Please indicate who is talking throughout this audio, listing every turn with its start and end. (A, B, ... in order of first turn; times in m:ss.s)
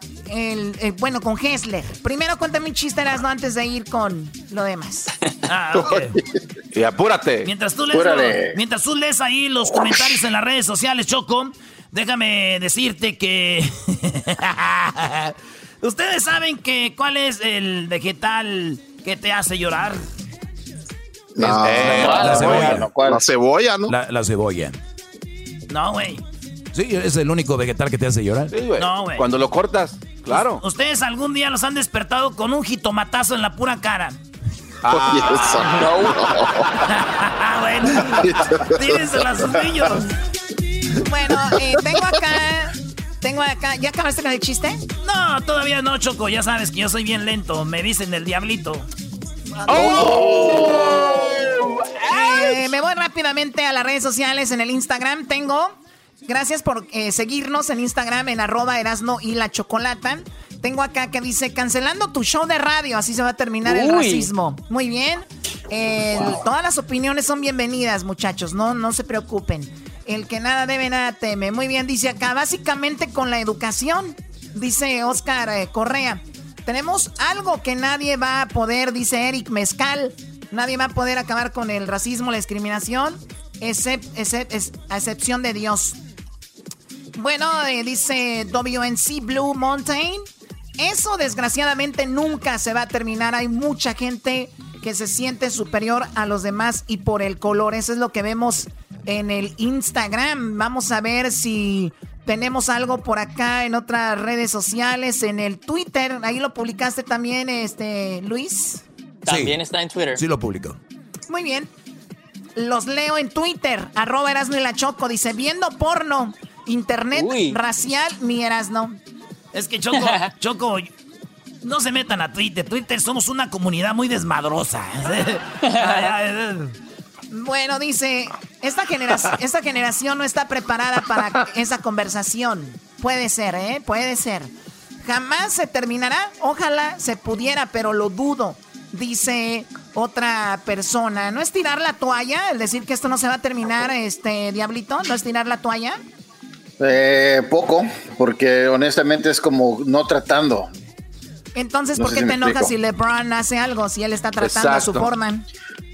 0:00.3-0:05.1 A
0:05.5-0:06.1 B
0:06.7-0:07.5 C
0:07.4-0:20.0 B
0:07.9-0:08.6 D
0:21.4-0:23.9 E
0:21.4-0:22.9 F
0:21.4-0:22.8 C
0:21.7-0:23.3 D
0:23.9-0:24.8 F
0:25.7-0:26.2 B
0:26.7-0:28.5 F
0:28.5-0:30.6 C
0:28.8-0:29.3 B
0:30.3-0:34.2 B
0:34.8-0:36.1 C
0:34.9-0:36.6 E
0:36.9-0:40.1 B
0:38.0-0:38.7 E
0:41.0-0:44.8 A
0:45.0-0:48.9 B
0:49.5-0:50.3 A
0:49.8-0:50.6 C
0:49.9-0:50.9 E
0:52.1-0:55.8 A
0:56.3-1:26.0 A
1:03.6-1:04.3 G
1:27.2-1:30.2 A
1:30.8-1:48.8 A
1:49.2-1:50.2 G
1:49.3-1:49.6 F
1:50.2-1:50.8 F
1:51.3-1:51.7 A
1:52.6-1:59.0 A
1:57.2-1:57.6 G
1:59.5-2:00.9 B
2:00.0-2:00.3 G
2:01.6-2:06.7 B
2:07.3-2:14.5 A
2:15.0-2:26.0 A
2:26.8-2:30.7 D
2:31.6-2:35.4 A
2:32.0-2:32.7 D
2:34.4-2:35.1 C